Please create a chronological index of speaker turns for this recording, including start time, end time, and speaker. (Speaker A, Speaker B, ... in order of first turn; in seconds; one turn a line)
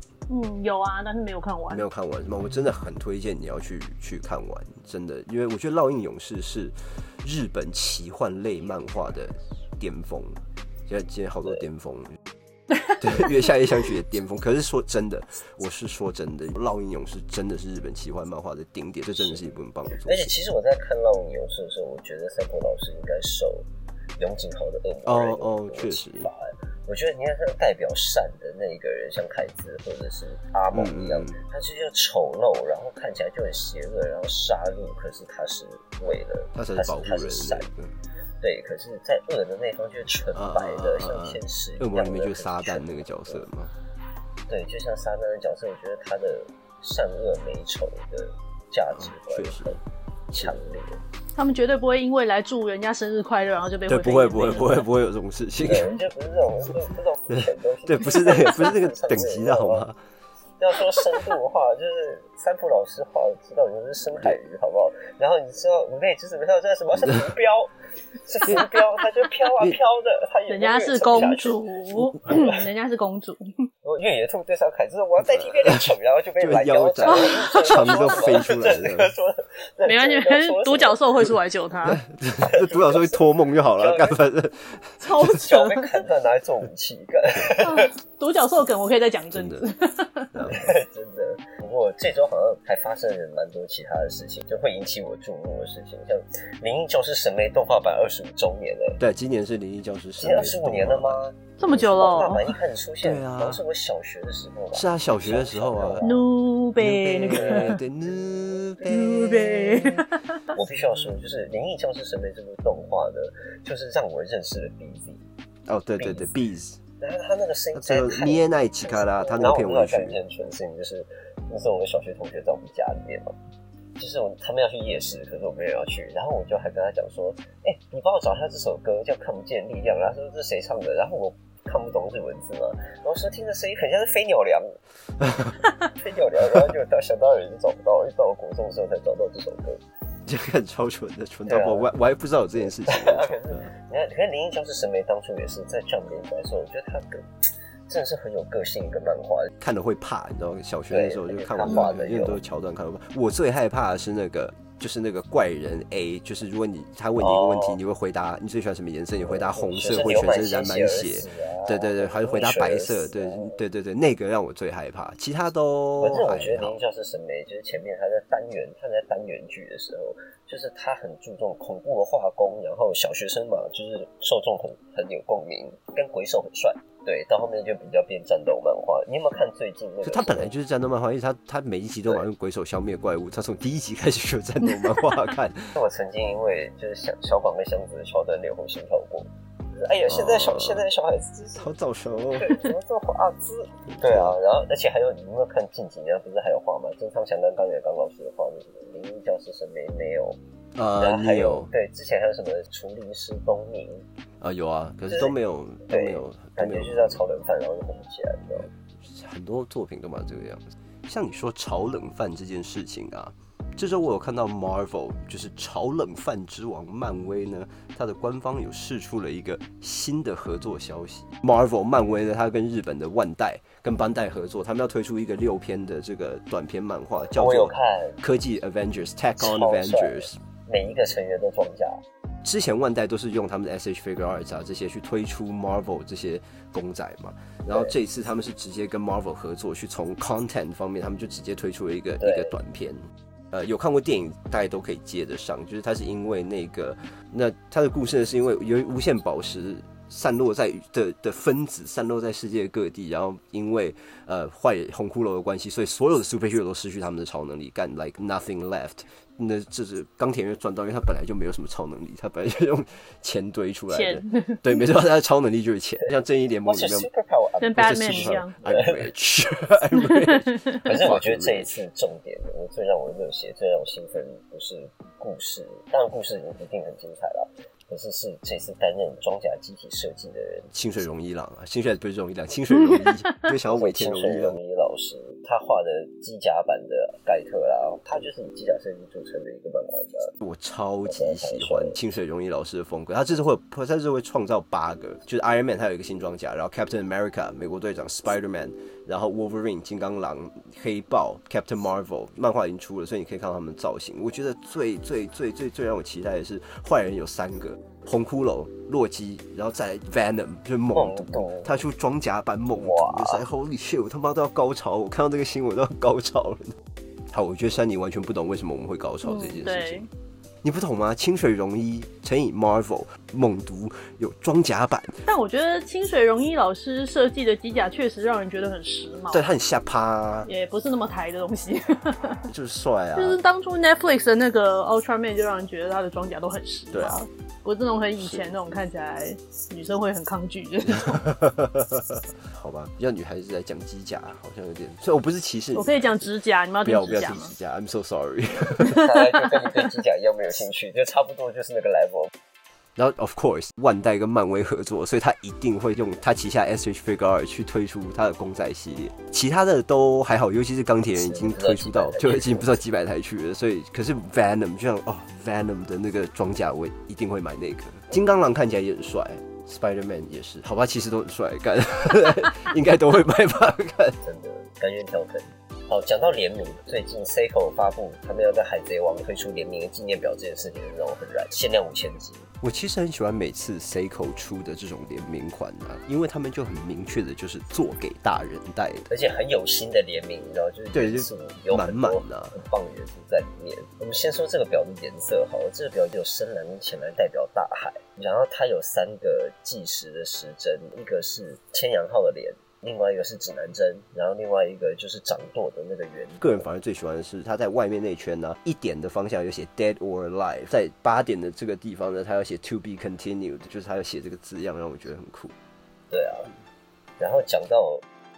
Speaker A: 0.3-1.8
Speaker B: 1.7-12.2
Speaker B: 13.0-20.3
Speaker C: 20.0-23.6
Speaker C: 24.2-37.7
Speaker B: 25.1-26.3
Speaker B: 30.7-31.4
Speaker B: 36.5-37.9
Speaker C: 38.4-43.4
Speaker B: 40.3-43.7
Speaker C: 44.5-49.8
Speaker B: 48.9-49.8
Speaker C: 50.3-51.0
Speaker A: 51.4-54.9
Speaker B: 53.9-55.9
Speaker C: 55.6-59.8
Speaker B: 57.3-60.0
Speaker C: 60.6-67.7
Speaker C: 68.2-71.6
Speaker A: 70.5-73.7
Speaker C: 72.3-72.6
Speaker C: 73.8-81.1
Speaker B: 75.3-79.1
Speaker A: 77.1-78.3
Speaker A: 79.8-82.0
Speaker B: 81.8-85.0
Speaker C: 82.4-84.2
Speaker A: 85.0-86.0
Speaker C: 85.2-87.9
Speaker A: 87.6-90.3
Speaker B: 89.3-89.7
Speaker B: 90.3-90.7
Speaker C: 90.5-99.0
Speaker B: 99.0-101.2
Speaker C: 100.2-106.1
Speaker A: 101.6-102.5
Speaker B: 103.0-103.6
Speaker B: 104.7-106.1
Speaker A: 106.0-107.8
Speaker B: 106.8-110.0
Speaker C: 107.3-107.7
Speaker A: 108.8-110.5
Speaker C: 110.5-115.2
Speaker B: 115.7-116.8
Speaker C: 116.0-116.3
Speaker C: 117.0-123.3
Speaker B: 117.7-120.2
Speaker C: 124.0-134.8
Speaker B: 135.2-135.6
Speaker C: 135.8-139.8
Speaker B: 140.2-143.7
Speaker C: 141.5-141.9
Speaker C: 142.6-147.2
Speaker C: 147.9-149.5
Speaker B: 149.6-166.8
Speaker C: 150.9-152.4
Speaker C: 157.2-157.8
Speaker C: 159.2-163.6
Speaker C: 166.0-180.5
Speaker B: 180.0-185.7
Speaker C: 185.7-191.7
Speaker B: 190.1-190.9
Speaker B: 191.6-192.6
Speaker C: 192.3-200.4
Speaker B: 193.9-194.4
Speaker B: 200.8-201.7
Speaker C: 201.0-204.0
Speaker B: 204.4-207.2
Speaker C: 205.1-205.3
Speaker C: 205.9-208.7
Speaker B: 209.0-230.4
Speaker C: 227.3-228.2
Speaker C: 229.4-232.0
Speaker B: 232.4-243.0
Speaker C: 242.2-242.5
Speaker B: 243.5-267.1
Speaker A: 263.9-264.8
Speaker C: 266.6-269.1
Speaker A: 267.6-268.5
Speaker B: 267.8-271.7
Speaker A: 269.9-270.8
Speaker C: 270.8-280.7
Speaker B: 280.7-284.6
Speaker A: 282.7-283.4
Speaker C: 283.7-290.3
Speaker B: 290.4-316.7
Speaker C: 291.1-292.0
Speaker C: 310.9-311.8
Speaker C: 312.8-313.4
Speaker B: 317.3-320.1
Speaker A: 319.2-320.1
Speaker B: 320.6-325.2
Speaker A: 325.2-329.5
Speaker B: 329.3-330.5
Speaker A: 330.4-332.5
Speaker B: 332.5-333.4
Speaker A: 333.1-341.2
Speaker B: 336.9-337.2
Speaker B: 338.2-338.5
Speaker B: 340.8-346.3
Speaker A: 345.7-347.5
Speaker B: 346.8-349.0
Speaker A: 348.8-349.8
Speaker C: 348.9-352.3
Speaker B: 353.0-374.2
Speaker C: 361.1-362.8
Speaker C: 374.2-382.5
Speaker B: 382.6-389.1
Speaker C: 389.1-406.6
Speaker B: 390.9-392.6
Speaker B: 406.4-415.5
Speaker C: 416.1-416.5
Speaker C: 417.2-418.0